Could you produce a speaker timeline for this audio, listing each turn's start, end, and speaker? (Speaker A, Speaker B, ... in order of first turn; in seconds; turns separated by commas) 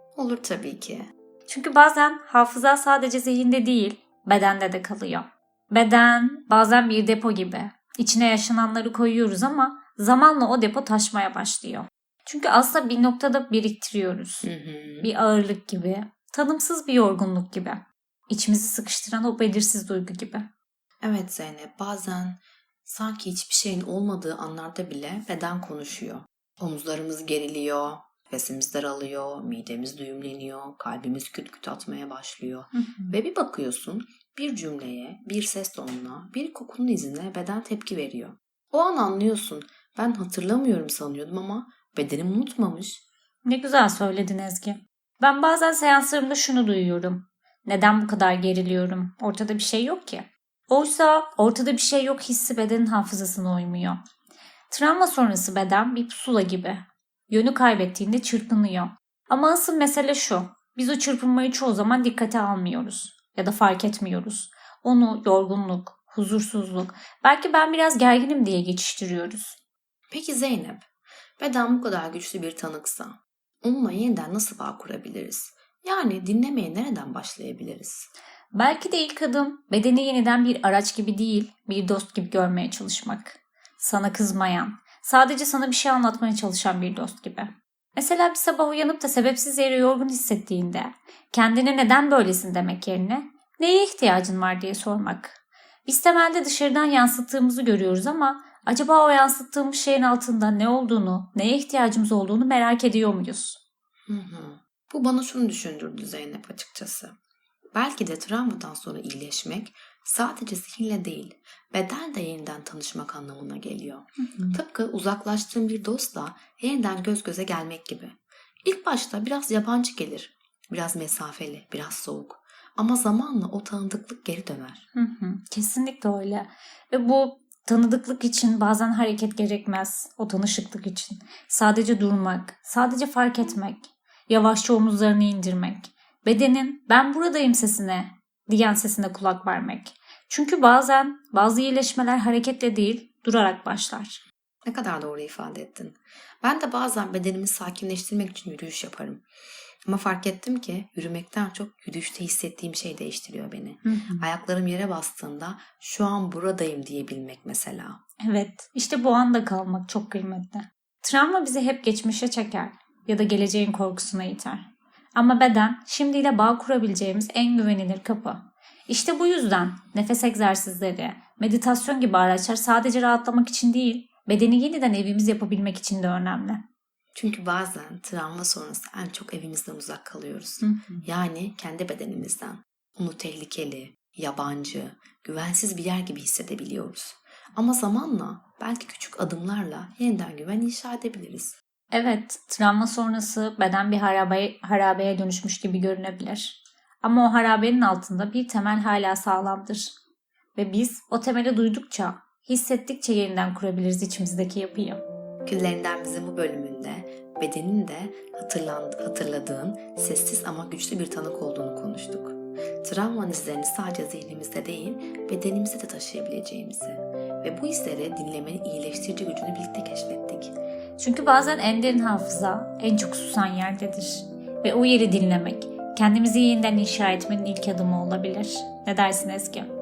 Speaker A: 0.2-1.1, Speaker B: 1.5-14.5, Speaker A: 14.4-15.1, Speaker B: 15.0-20.5, Speaker A: 21.0-43.0, Speaker B: 32.7-33.2, Speaker B: 43.5-54.0, Speaker B: 54.7-69.6, Speaker A: 70.1-78.1, Speaker B: 78.5-103.6, Speaker A: 104.1-107.2, Speaker A: 107.8-124.8, Speaker B: 114.2-114.6, Speaker B: 125.0-144.2, Speaker A: 144.7-149.3, Speaker A: 149.9-158.0, Speaker B: 153.8-154.3, Speaker B: 158.2-176.6, Speaker A: 177.2-191.6, Speaker B: 180.6-181.1, Speaker B: 191.9-200.0, Speaker B: 200.6-205.0, Speaker A: 205.5-220.5, Speaker B: 221.0-229.7